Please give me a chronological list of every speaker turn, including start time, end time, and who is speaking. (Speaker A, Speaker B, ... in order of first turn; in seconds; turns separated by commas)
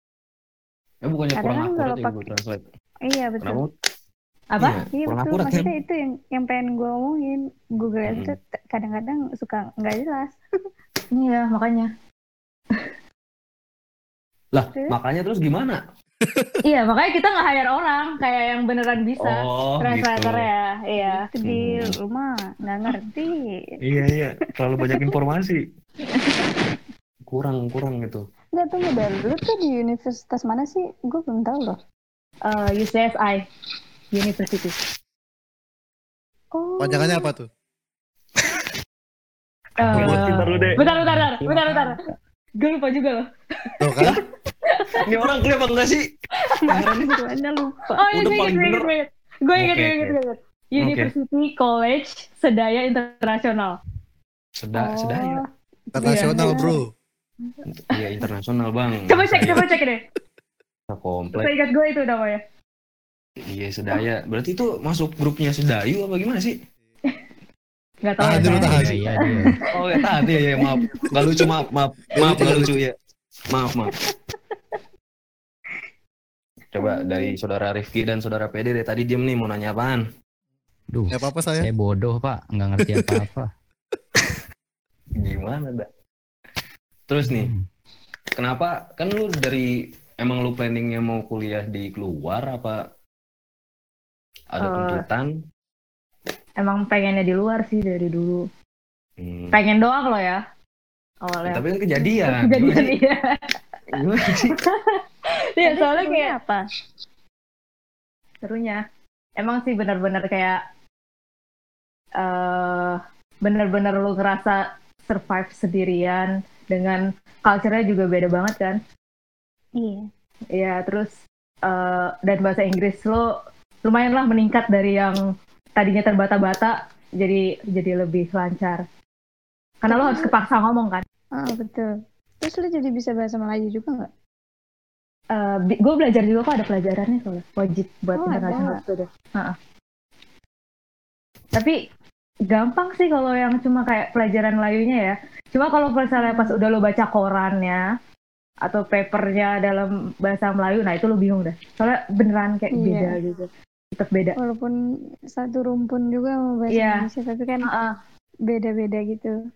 Speaker A: 1.0-2.6, Speaker B: 1.4-2.3, Speaker B: 3.0-3.6, Speaker A: 3.4-3.7, Speaker C: 4.5-4.8, Speaker A: 4.6-5.7, Speaker B: 4.9-10.4, Speaker A: 8.1-8.3, Speaker C: 11.1-11.9, Speaker A: 14.5-15.8, Speaker D: 16.2-16.6, Speaker C: 16.6-21.3, Speaker A: 19.2-20.5, Speaker B: 21.0-23.4, Speaker A: 21.4-21.9, Speaker C: 22.6-23.0, Speaker A: 23.8-25.6, Speaker C: 26.1-26.5, Speaker A: 27.3-28.2, Speaker B: 28.5-31.8, Speaker C: 32.4-33.4, Speaker C: 34.1-34.8, Speaker B: 36.5-37.3, Speaker D: 36.8-37.5, Speaker C: 39.8-42.0, Speaker A: 39.8-40.8, Speaker D: 39.9-40.8, Speaker C: 42.6-43.8, Speaker D: 43.8-44.2, Speaker C: 44.6-45.1, Speaker A: 44.9-46.0, Speaker C: 46.4-46.7, Speaker B: 46.6-48.0, Speaker A: 46.7-47.2, Speaker C: 47.9-53.8, Speaker A: 48.1-48.9, Speaker A: 49.5-50.2, Speaker A: 50.8-51.1, Speaker A: 54.6-55.4, Speaker B: 54.8-56.7, Speaker D: 55.9-56.9, Speaker C: 56.0-56.7, Speaker A: 57.7-59.7, Speaker C: 59.0-60.0, Speaker A: 60.9-61.5, Speaker C: 61.3-62.4, Speaker A: 63.5-66.5, Speaker C: 68.0-69.7, Speaker D: 68.2-69.0, Speaker E: 68.3-69.5, Speaker A: 69.7-72.9, Speaker D: 72.1-72.8, Speaker A: 73.5-73.9, Speaker A: 76.7-80.0, Speaker B: 76.8-77.3, Speaker E: 80.9-83.5, Speaker D: 81.1-81.7, Speaker D: 82.9-83.2, Speaker A: 85.2-85.9, Speaker A: 87.1-87.5, Speaker E: 87.3-87.6, Speaker A: 88.4-92.8, Speaker A: 94.5-95.3, Speaker C: 94.6-95.0, Speaker C: 96.6-98.4, Speaker A: 99.2-99.6, Speaker C: 99.5-100.4, Speaker C: 101.2-103.5, Speaker A: 101.4-103.0, Speaker A: 103.9-104.6, Speaker C: 104.3-106.4, Speaker B: 105.6-106.6, Speaker C: 108.4-108.8, Speaker C: 109.4-110.6, Speaker C: 112.2-118.8, Speaker B: 119.8-120.1, Speaker C: 120.5-121.1, Speaker C: 121.7-123.2, Speaker C: 123.8-125.2, Speaker C: 125.8-128.8, Speaker C: 129.8-131.0, Speaker B: 129.9-130.3, Speaker B: 131.4-131.9, Speaker B: 132.4-134.1, Speaker C: 135.3-139.5, Speaker B: 138.2-138.8, Speaker C: 142.5-147.8, Speaker B: 146.2-146.6, Speaker C: 148.6-154.3, Speaker B: 152.7-153.2, Speaker B: 154.3-154.7, Speaker B: 155.3-157.7, Speaker C: 156.7-157.1, Speaker C: 157.6-157.9, Speaker B: 158.5-159.3